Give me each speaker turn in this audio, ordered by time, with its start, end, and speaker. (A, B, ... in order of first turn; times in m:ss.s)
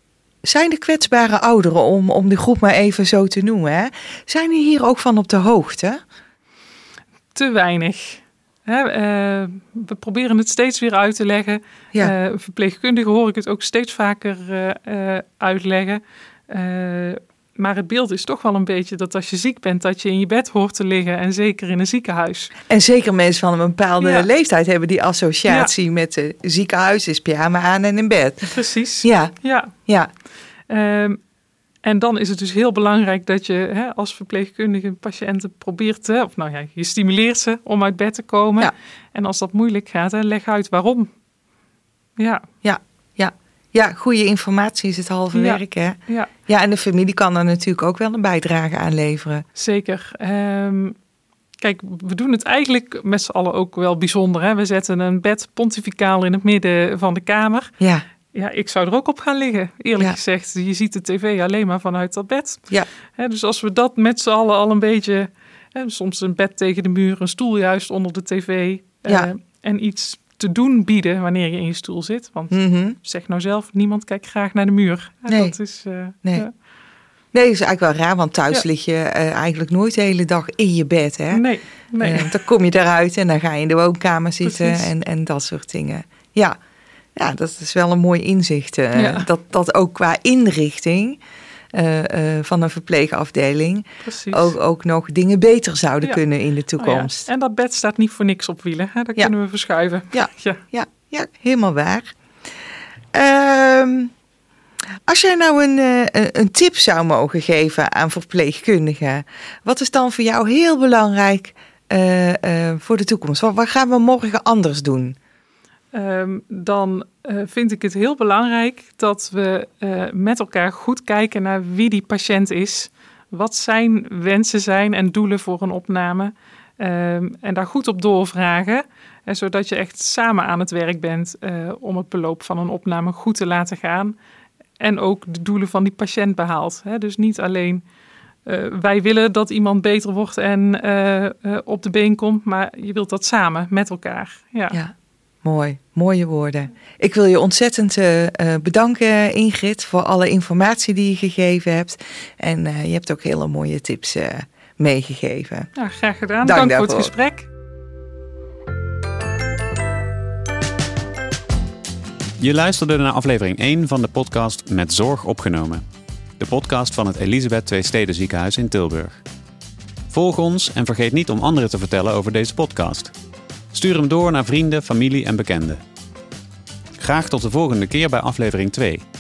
0:00.4-0:06.0 A
0:07.3-0:22.5 B
0:22.7-0:28.5 A
0:24.0-0:24.3 B
0:28.4-0:29.7 B
0:29.0-0:30.1 A
0:30.7-0:31.2 B
0:31.8-0:41.1 B
0:42.2-0:42.5 B
0:42.6-0:49.4 A
0:45.3-0:46.3 B
0:49.6-0:51.0 B
0:51.6-0:57.7 B
0:57.8-0:58.0 A
0:58.3-1:02.7 B
1:03.2-1:16.5 B
1:12.5-1:13.0 A
1:15.3-1:15.6 A
1:17.3-1:21.4 A
1:21.3-1:22.4 B
1:22.0-1:26.6 A
1:24.4-1:24.9 B
1:27.2-1:31.2 A
1:28.9-1:29.3 B
1:31.7-1:37.3 A
1:34.0-1:34.6 B
1:36.8-1:40.6 B
1:40.1-1:42.2 A
1:43.1-1:44.1 A
1:45.1-1:55.2 A
1:55.9-2:14.2 B
2:14.8-2:17.8 B
2:18.4-2:24.8 B
2:24.7-2:35.7 A
2:35.8-2:37.5 B
2:36.4-2:37.1 A
2:42.4-2:45.8 C
2:46.4-2:49.2 C
2:50.1-2:53.1 C
2:53.7-2:55.8 C
2:57.0-2:59.0 C